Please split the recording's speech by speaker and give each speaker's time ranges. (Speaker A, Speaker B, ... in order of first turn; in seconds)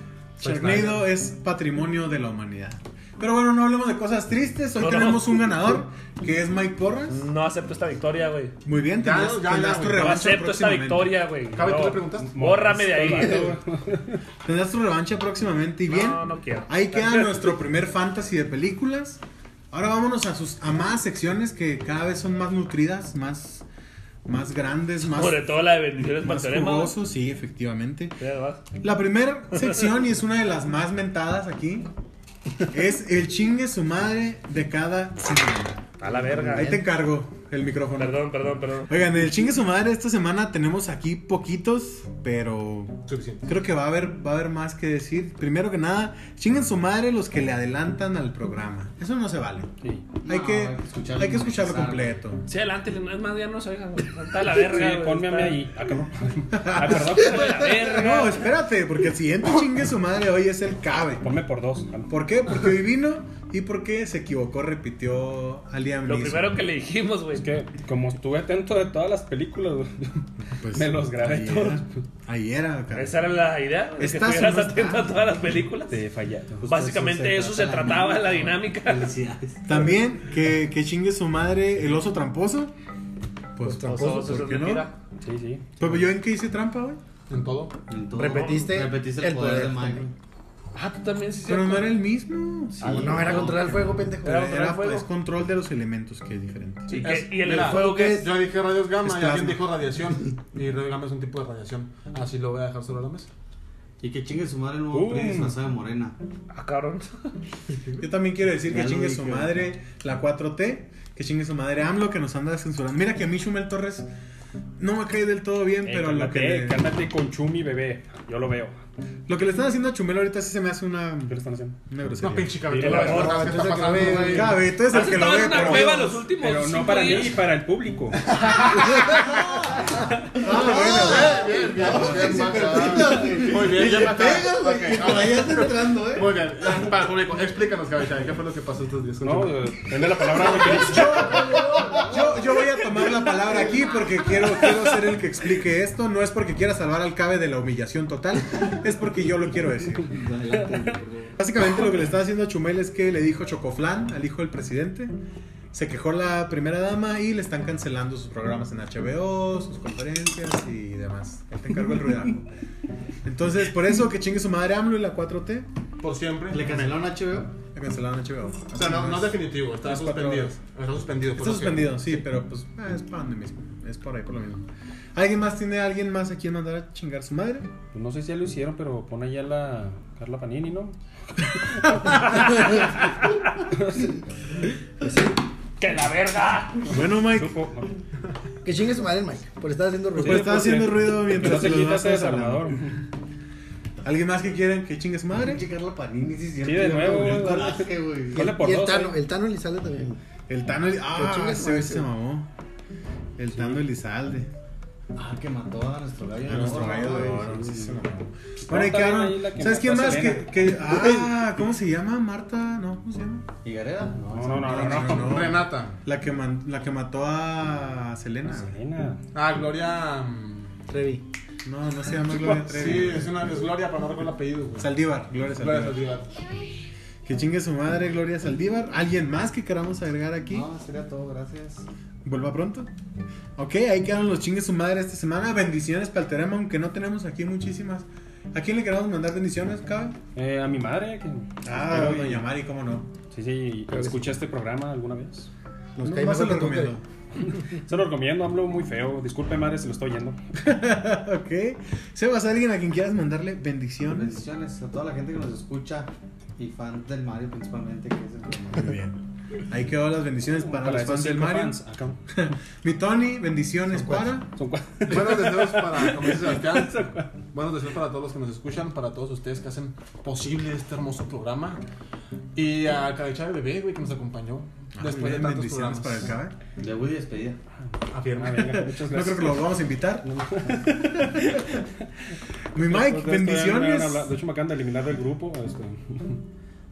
Speaker A: 0.4-7.2, 8.6-11.1, 14.4-23.6, 24.2-28.2, 28.8-31.9, 32.7-35.9, 36.4-38.2, 38.9-49.7, 50.2-52.4, 56.5-61.3, 62.1-66.6, 70.6-73.3, 74.0-75.0, 79.7-82.7, 83.6-84.9, 85.8-87.0, 91.4-93.5, 94.2-97.0, 99.0-99.6, 108.0-114.1, 114.8-116.8, 119.3-121.4, 121.9-122.6, 124.2-126.2, 130.4-132.2, 133.8-134.4, 140.4-150.2, 151.4-155.2, 155.7-162.5, 163.2-165.7, 167.7-170.6, 171.4-177.7, 186.9-187.6, 190.2-192.8, 194.0-195.7, 200.5-202.5, 203.4-204.5, 206.5-213.5, 214.7-218.7, 221.7-223.3, 224.8-226.0, 227.2-230.7, 232.2-232.9, 233.6-240.2, 241.6-243.1, 246.0-247.0, 250.6-254.4, 258.8-264.5, 275.0-276.5, 278.6-280.3, 282.7-284.3
Speaker B: 0.4-1.0, 9.0-10.2, 11.5-12.4, 43.1-43.5, 87.3-87.8, 97.0-103.3, 122.2-124.5, 130.7-139.7, 166.0-167.0, 168.7-172.2, 215.1-216.0, 219.3-220.8, 222.5-224.9, 225.5-226.3, 265.1-271.8, 272.6-276.3, 278.1-278.7
Speaker C: 4.8-5.4, 7.1-8.5, 9.9-13.6, 15.9-17.5, 25.1-27.0, 28.2-28.6, 29.6-29.8, 36.0-36.8, 38.0-39.0, 52.5-55.6, 56.9-58.5, 66.1-67.5, 73.0-76.0, 76.6-79.1, 83.8-84.9, 88.2-88.7, 90.8-92.0, 94.2-95.1, 96.9-98.3, 106.5-107.3, 122.8-123.4, 124.9-127.4, 185.8-186.9
Speaker D: 12.2-14.2, 54.5-57.7, 61.2-62.1, 67.3-71.9, 75.9-76.6, 85.2-86.0, 104.9-105.5, 115.8-118.8, 121.3-121.8, 122.7-123.5, 126.4-128.3, 139.2-141.5, 177.9-182.9, 183.7-184.0, 187.0-187.9, 190.2-193.0, 196.6-199.2, 203.5-203.8, 206.5-207.8, 208.7-210.7, 214.3-215.5, 218.5-219.2, 240.3-242.5, 243.3-245.5, 247.7-250.4, 260.6-262.2, 264.5-267.3, 278.3-279.7, 280.2-281.9, 282.8-286.4
Speaker E: 50.2-52.1, 74.2-74.8, 76.7-80.0, 87.9-90.1, 92.8-93.8, 104.0-106.2, 108.6-109.6, 130.7-136.5, 140.9-142.4, 150.1-151.4, 166.5-167.6, 195.3-198.5, 205.2-207.6, 213.6-215.4, 230.5-231.9, 254.1-259.0, 276.8-277.6
Speaker F: 83.6-84.3, 88.2-90.1, 92.8-94.6, 97.5-98.4, 122.8-124.6, 131.5-132.9, 185.0-185.3, 188.6-190.7, 198.3-200.2, 201.1-202.1, 220.9-221.2, 243.9-244.3, 246.0-247.0, 264.0-264.3